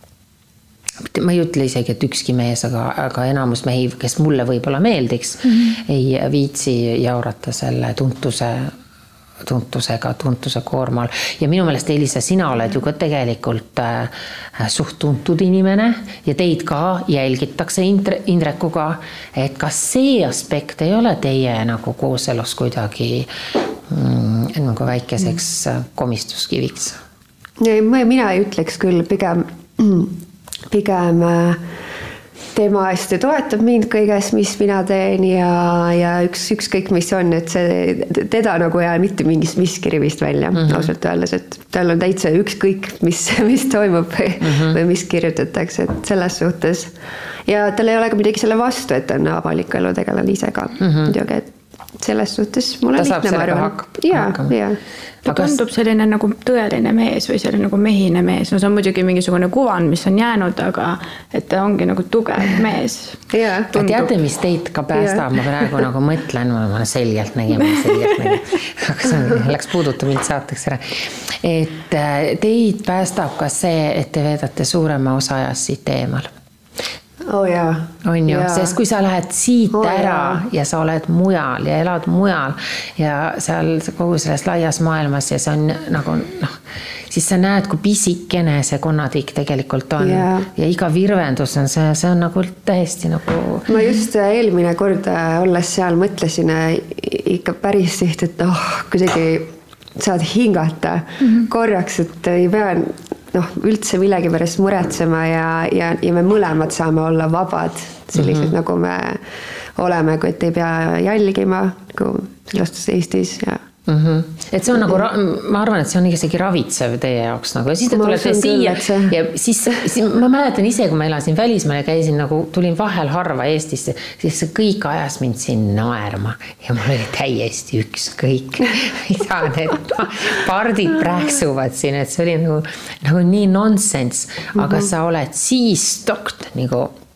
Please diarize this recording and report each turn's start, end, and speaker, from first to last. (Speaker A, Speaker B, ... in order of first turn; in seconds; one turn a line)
Speaker A: 1.0-8.7
Speaker A: 9.4-23.3
Speaker A: 23.9-27.0
Speaker B: 27.6-30.2
Speaker B: 30.7-31.6
Speaker B: 32.5-46.9
Speaker A: 40.5-40.9
Speaker A: 44.4-44.8
Speaker B: 47.5-54.8
Speaker A: 50.8-51.1
Speaker A: 53.0-54.6
Speaker A: 55.2-55.6
Speaker C: 55.2-63.2
Speaker B: 63.3-63.9
Speaker A: 63.7-76.3
Speaker B: 64.9-65.2
Speaker B: 77.2-78.7
Speaker A: 78.0-93.8
Speaker B: 79.7-80.4
Speaker B: 90.0-90.5
Speaker B: 93.7-109.2
Speaker A: 108.1-108.5
Speaker B: 109.8-113.6
Speaker A: 113.8-136.9
Speaker B: 117.9-119.1